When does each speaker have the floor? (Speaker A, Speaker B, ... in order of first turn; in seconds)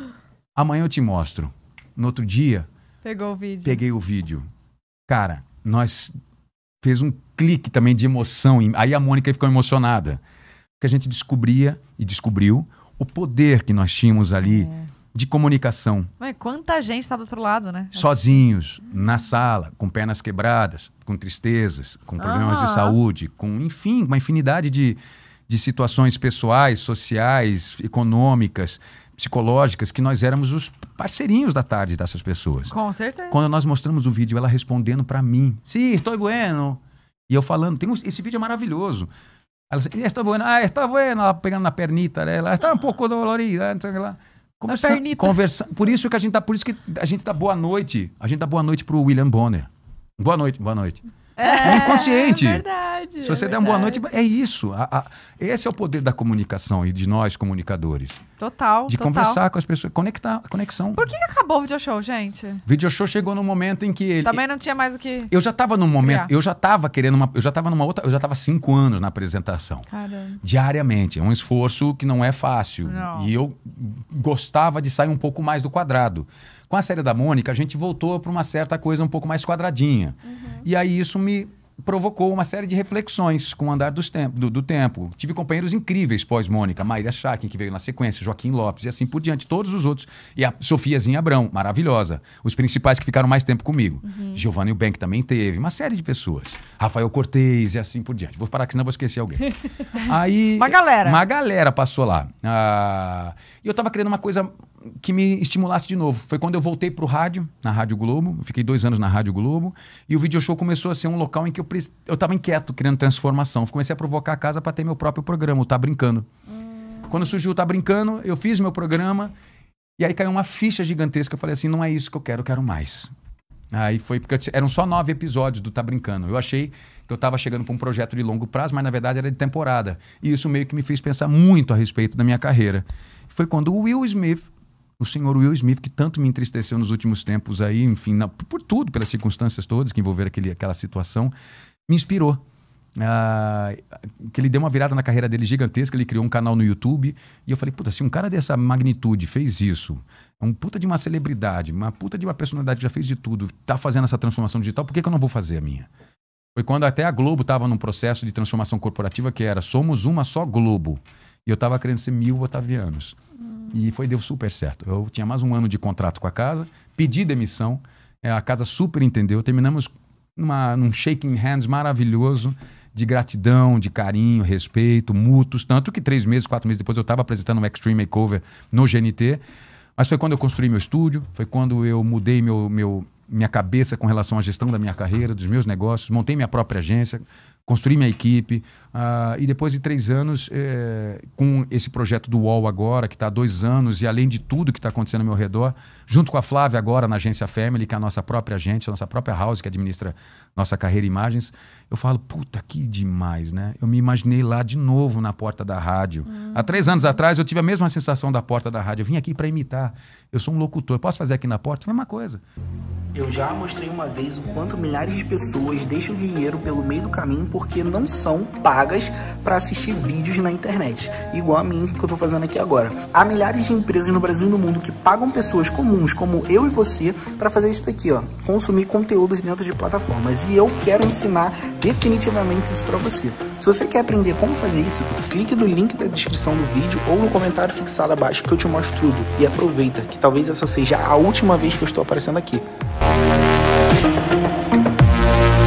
Speaker A: 0.6-2.6, 3.6-4.5, 5.1-6.1, 6.8-10.2, 10.8-16.1, 17.9-32.7, 33.3-39.1, 39.7-52.6, 53.2-58.2, 58.9-61.0, 62.7-64.4, 65.3-69.8, 70.4-116.3, 117.1-119.3, 120.0-123.1, 123.7-141.3, 141.9-142.4, 143.0-155.9, 156.6-163.2, 163.7-179.4, 180.0-212.4
Speaker B: 3.0-3.8, 14.4-14.9, 16.2-18.4, 22.2-22.9, 32.7-33.4, 44.7-45.3, 51.4-54.0, 58.4-59.4, 60.9-62.6, 64.2-65.3, 66.0-66.3, 69.9-70.4, 72.8-73.3, 80.3-80.6, 94.0-94.4, 100.6-101.2, 116.7-117.1, 206.3-206.8
Speaker C: 213.1-242.6